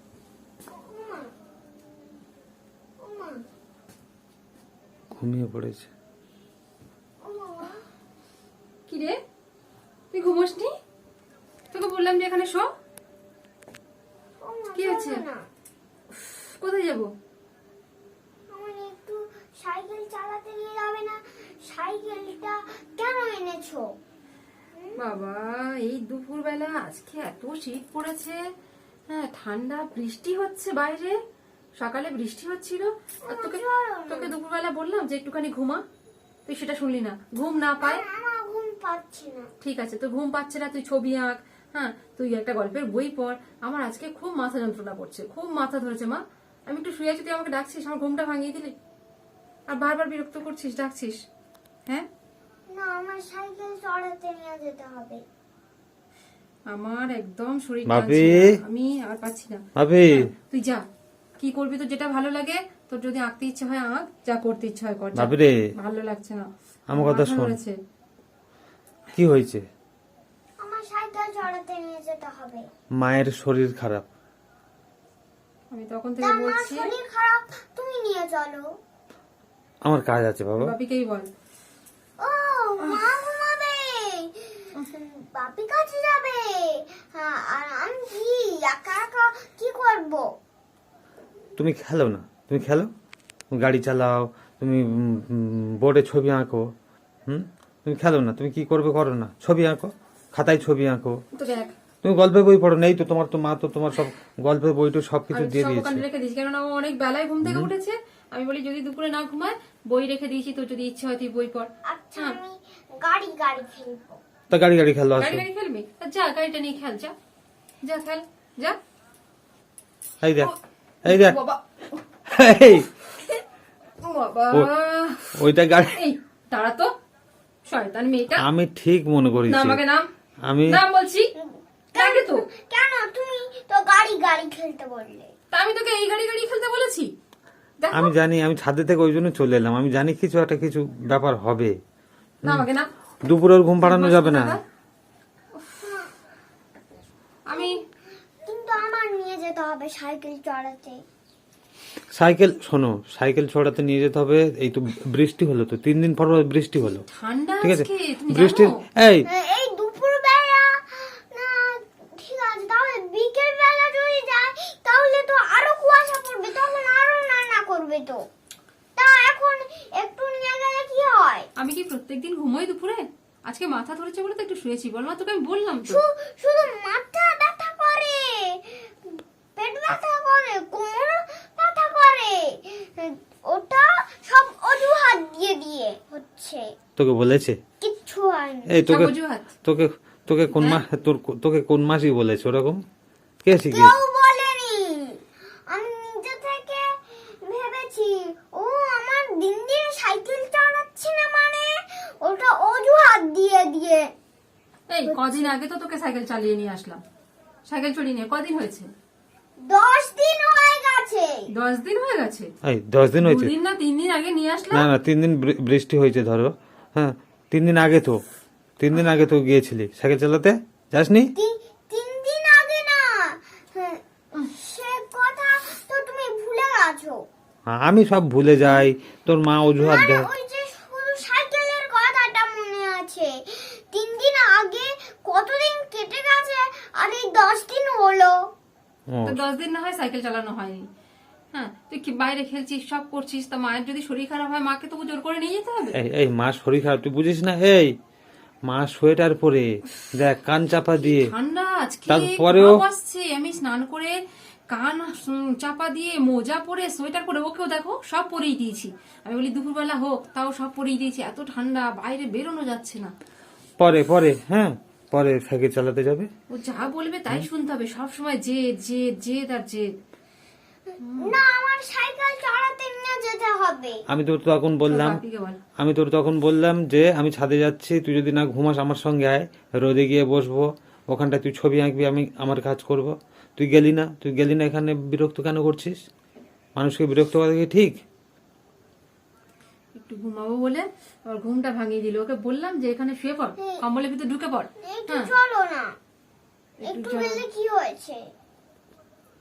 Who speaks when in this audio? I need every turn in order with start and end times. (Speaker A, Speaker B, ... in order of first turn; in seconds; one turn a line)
Speaker A: 0.7-1.3
Speaker A: 3.0-3.4
Speaker B: 5.1-5.9
Speaker A: 7.2-7.8
Speaker C: 8.9-9.2
Speaker C: 10.1-10.7
Speaker C: 11.7-12.7
Speaker A: 14.4-15.5
Speaker C: 14.7-15.2
Speaker C: 16.1-17.1
Speaker A: 18.5-23.9
Speaker C: 24.9-28.4
Speaker C: 29.1-31.2
Speaker C: 31.8-35.8
Speaker A: 33.2-34.3
Speaker C: 36.5-38.0
Speaker A: 37.8-39.5
Speaker C: 39.6-48.7
Speaker C: 49.7-51.2
Speaker A: 52.7-55.2
Speaker C: 56.7-60.8
Speaker B: 57.9-58.5
Speaker B: 59.8-60.3
Speaker C: 61.4-67.8
Speaker B: 65.1-65.7
Speaker B: 66.9-67.6
Speaker B: 69.1-69.7
Speaker A: 70.6-72.7
Speaker B: 73.0-74.0
Speaker C: 75.7-76.9
Speaker A: 76.2-78.8
Speaker B: 79.8-80.7
Speaker C: 80.6-81.3
Speaker A: 82.2-90.2
Speaker B: 91.5-92.9
Speaker B: 93.5-96.7
Speaker B: 97.3-101.2
Speaker C: 101.3-101.7
Speaker B: 102.0-106.0
Speaker C: 105.3-112.4
Speaker B: 107.4-107.7
Speaker A: 111.8-114.2
Speaker B: 114.5-115.5
Speaker C: 115.2-117.1
Speaker C: 117.8-118.8
Speaker B: 120.2-120.5
Speaker C: 120.4-121.6
Speaker B: 121.0-121.4
Speaker B: 122.3-122.9
Speaker C: 124.0-126.9
Speaker B: 125.3-126.0
Speaker C: 127.7-128.4
Speaker B: 128.4-129.8
Speaker C: 129.5-130.1
Speaker B: 130.4-130.8
Speaker C: 130.7-131.3
Speaker A: 131.3-135.3
Speaker C: 131.9-132.4
Speaker C: 135.5-137.1
Speaker C: 137.8-138.1
Speaker B: 137.9-141.8
Speaker C: 142.4-142.9
Speaker B: 143.2-144.6
Speaker C: 143.8-144.6
Speaker A: 145.8-146.1
Speaker C: 147.5-147.8
Speaker A: 147.5-147.8
Speaker A: 148.4-151.0
Speaker B: 152.1-157.0
Speaker C: 156.9-158.8
Speaker B: 157.6-159.3
Speaker A: 159.2-168.2
Speaker A: 169.0-171.5
Speaker C: 171.6-176.0
Speaker A: 175.8-186.7
Speaker B: 187.0-187.6
Speaker A: 187.8-188.8
Speaker B: 188.7-192.8
Speaker C: 188.9-189.5
Speaker B: 193.4-193.9
Speaker A: 193.6-204.1
Speaker C: 204.9-207.0
Speaker A: 205.1-205.5
Speaker C: 207.7-208.9
Speaker A: 209.6-211.4
Speaker C: 211.5-212.5
Speaker B: 212.6-213.5
Speaker C: 213.2-214.9
Speaker B: 214.7-218.2
Speaker B: 218.8-221.3
Speaker A: 221.3-227.2
Speaker B: 227.7-230.3
Speaker A: 229.8-238.3
Speaker B: 239.1-239.4
Speaker C: 239.2-240.9
Speaker C: 241.5-246.0
Speaker B: 245.9-247.9
Speaker B: 248.7-251.3
Speaker C: 250.9-263.1
Speaker B: 252.1-252.8
Speaker B: 263.8-266.3
Speaker C: 266.5-269.9
Speaker C: 271.0-271.4
Speaker A: 271.2-274.0
Speaker B: 274.1-275.2
Speaker C: 274.9-275.6
Speaker B: 275.8-286.0
Speaker B: 286.8-288.0
Speaker C: 289.9-295.3
Speaker A: 294.8-295.9
Speaker C: 296.8-297.4
Speaker A: 296.8-298.2